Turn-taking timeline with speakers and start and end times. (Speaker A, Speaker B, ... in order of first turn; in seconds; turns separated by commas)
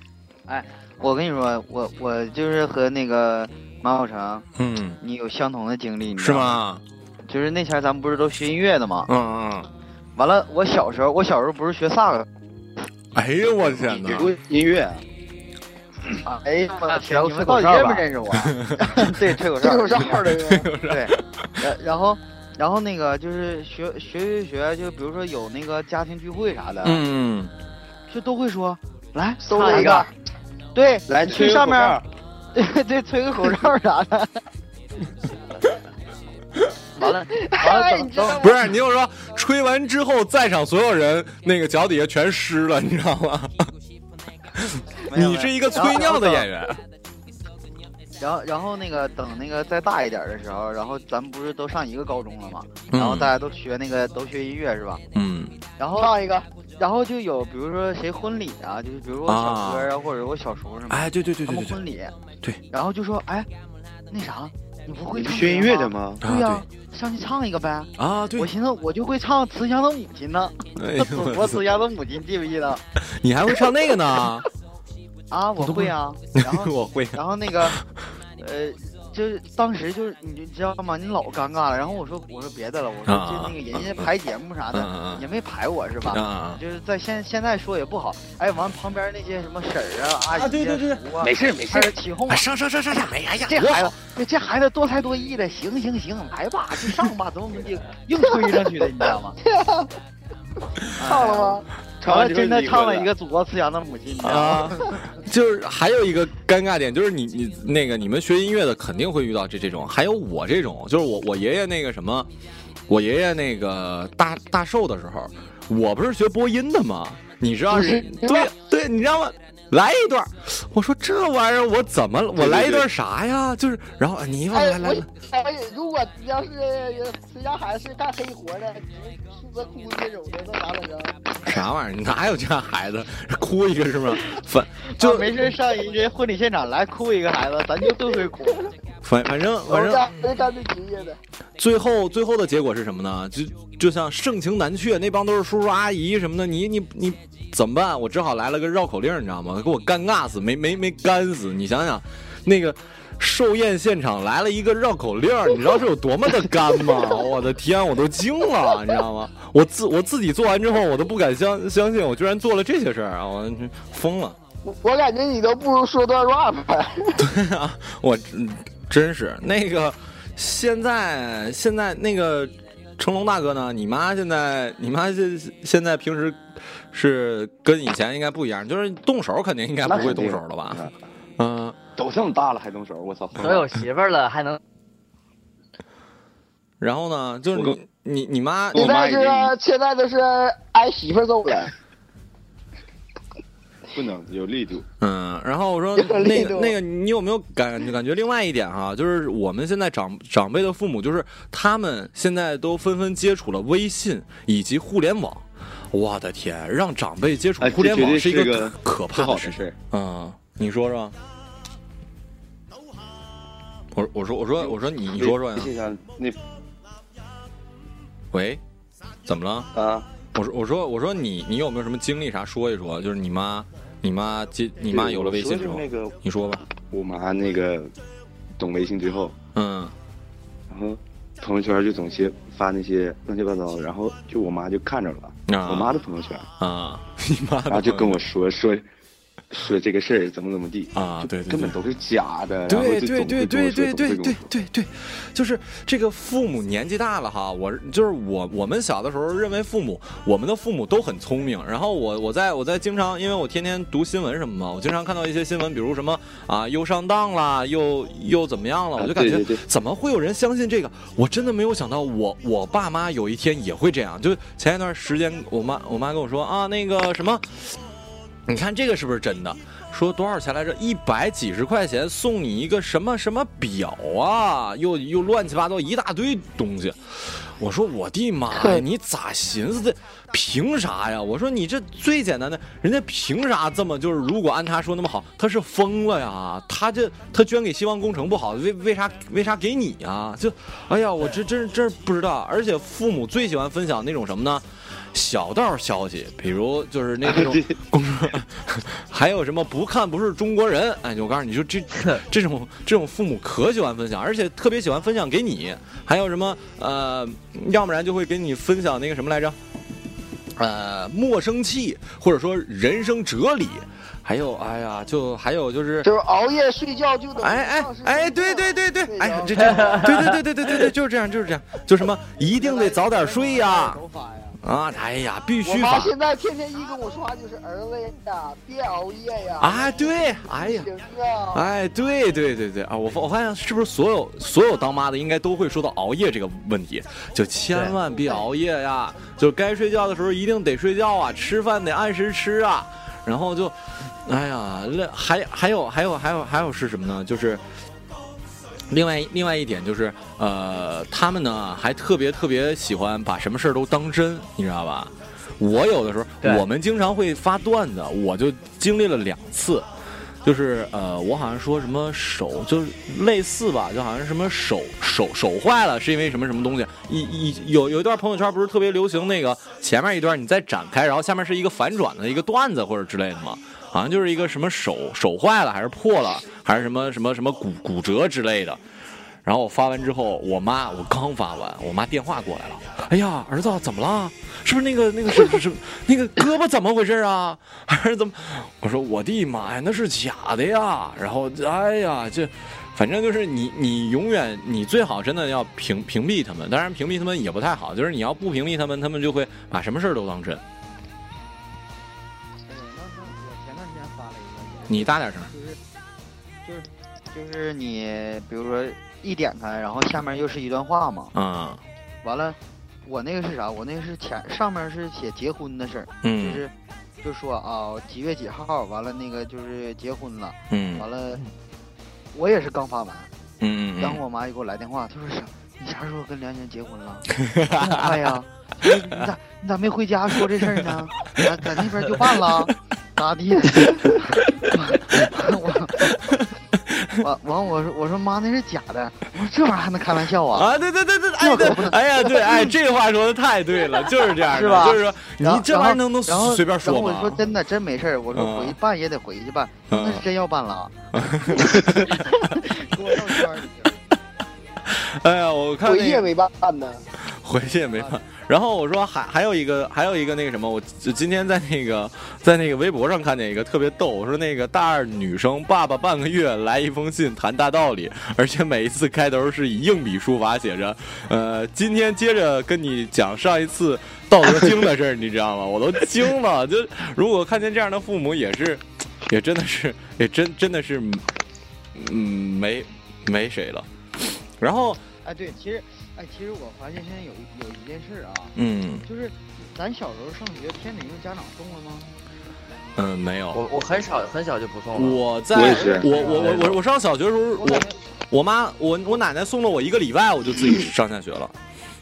Speaker A: 0.5-4.5, Speaker B: 4.5-5.0, Speaker A: 5.0-6.6, Speaker B: 6.2-6.8, Speaker A: 7.3-9.1, Speaker B: 9.1-9.7, Speaker A: 10.2-12.2, Speaker B: 13.1-14.3, Speaker C: 13.7-15.0, Speaker A: 16.2-20.2, Speaker D: 16.9-18.1, Speaker B: 18.3-19.0, Speaker E: 19.6-20.7, Speaker B: 20.4-21.2, Speaker A: 20.9-27.0, Speaker B: 26.8-27.5, Speaker A: 28.1-30.1, Speaker E: 29.4-30.1, Speaker D: 29.4-30.1, Speaker A: 30.7-32.0, Speaker C: 31.1-32.0, Speaker A: 32.5-34.3, Speaker A: 37.0-38.4, Speaker E: 37.0-38.7, Speaker B: 38.4-43.7, Speaker B: 44.6-46.8, Speaker A: 45.1-46.5, Speaker A: 48.2-55.0, Speaker B: 52.9-53.3, Speaker B: 55.1-55.5, Speaker A: 55.8-56.1, Speaker E: 55.9-56.5, Speaker A: 56.8-62.1, Speaker B: 59.2-59.9, Speaker B: 60.9-61.8, Speaker A: 62.7-63.5, Speaker A: 64.1-72.8, Speaker C: 65.1-66.2, Speaker B: 66.2-66.6, Speaker B: 68.0-68.5, Speaker B: 70.8-71.6, Speaker B: 73.0-74.5, Speaker A: 75.3-77.8, Speaker B: 75.6-77.8, Speaker A: 78.4-92.5, Speaker B: 83.1-84.1, Speaker B: 84.7-85.2, Speaker B: 86.1-86.6, Speaker B: 90.3-91.0, Speaker C: 91.2-91.9, Speaker B: 92.3-93.9, Speaker A: 93.5-99.3, Speaker E: 99.4-99.9, Speaker A: 101.0-105.0, Speaker E: 101.0-101.6, Speaker C: 102.0-103.1, Speaker B: 104.2-112.3, Speaker B: 112.9-125.1, Speaker E: 117.7-118.5, Speaker C: 122.3-122.8, Speaker E: 124.5-131.1, Speaker B: 131.4-135.4, Speaker A: 135.0-138.7, Speaker B: 139.0-140.2, Speaker E: 139.7-141.2, Speaker B: 141.6-164.4, Speaker E: 164.6-167.2, Speaker B: 167.2-176.4, Speaker B: 176.9-180.8, Speaker C: 179.8-180.9, Speaker B: 181.4-181.8, Speaker C: 182.0-183.7, Speaker D: 183.4-184.6, Speaker B: 186.8-188.9, Speaker C: 188.7-189.5, Speaker E: 188.7-191.7, Speaker C: 193.9-194.8, Speaker B: 195.0-211.1, Speaker E: 195.9-196.7, Speaker C: 207.6-209.8, Speaker B: 213.9-215.7, Speaker C: 214.6-216.4, Speaker B: 218.3-218.6, Speaker B: 219.2-219.7, Speaker C: 219.7-220.1, Speaker B: 220.3-226.6, Speaker C: 224.8-226.2, Speaker C: 226.8-227.9, Speaker C: 228.6-229.3, Speaker B: 229.5-229.9, Speaker C: 230.7-236.5, Speaker B: 235.5-235.9, Speaker B: 236.6-238.2, Speaker C: 237.7-238.9, Speaker C: 239.5-244.5, Speaker B: 240.9-241.8, Speaker B: 242.7-267.8, Speaker C: 259.0-259.6, Speaker B: 268.5-309.6, Speaker E: 278.5-278.8, Speaker C: 297.4-297.6, Speaker B: 310.6-316.1, Speaker E: 316.0-320.3, Speaker B: 317.4-324.0, Speaker D: 319.8-320.3, Speaker A: 322.4-324.6, Speaker B: 324.6-326.1, Speaker E: 325.6-331.7, Speaker B: 329.6-330.9, Speaker B: 331.5-347.6, Speaker B: 348.9-359.9, Speaker B: 360.4-378.8, Speaker B: 379.4-400.6, Speaker A: 402.7-405.8, Speaker B: 404.9-405.5, Speaker A: 406.6-411.3, Speaker B: 411.3-411.8, Speaker A: 412.2-421.4, Speaker B: 416.2-416.6, Speaker B: 420.7-421.0, Speaker A: 422.3-423.3, Speaker B: 423.6-424.2, Speaker A: 424.0-436.1, Speaker B: 427.4-428.2, Speaker B: 436.0-436.4, Speaker A: 437.2-440.7, Speaker B: 440.5-447.4, Speaker A: 441.4-442.7, Speaker A: 444.5-450.9, Speaker B: 448.3-448.8, Speaker B: 449.9-450.2, Speaker B: 451.1-452.5, Speaker A: 451.7-453.9, Speaker B: 454.9-456.3, Speaker E: 455.8-457.0, Speaker B: 457.3-481.2, Speaker B: 481.9-483.9, Speaker B: 484.6-485.0, Speaker A: 485.2-492.1, Speaker B: 488.6-489.0, Speaker B: 492.9-493.6, Speaker D: 493.5-495.2, Speaker B: 494.9-501.5, Speaker C: 495.5-496.1, Speaker D: 496.2-496.8, Speaker A: 497.6-497.9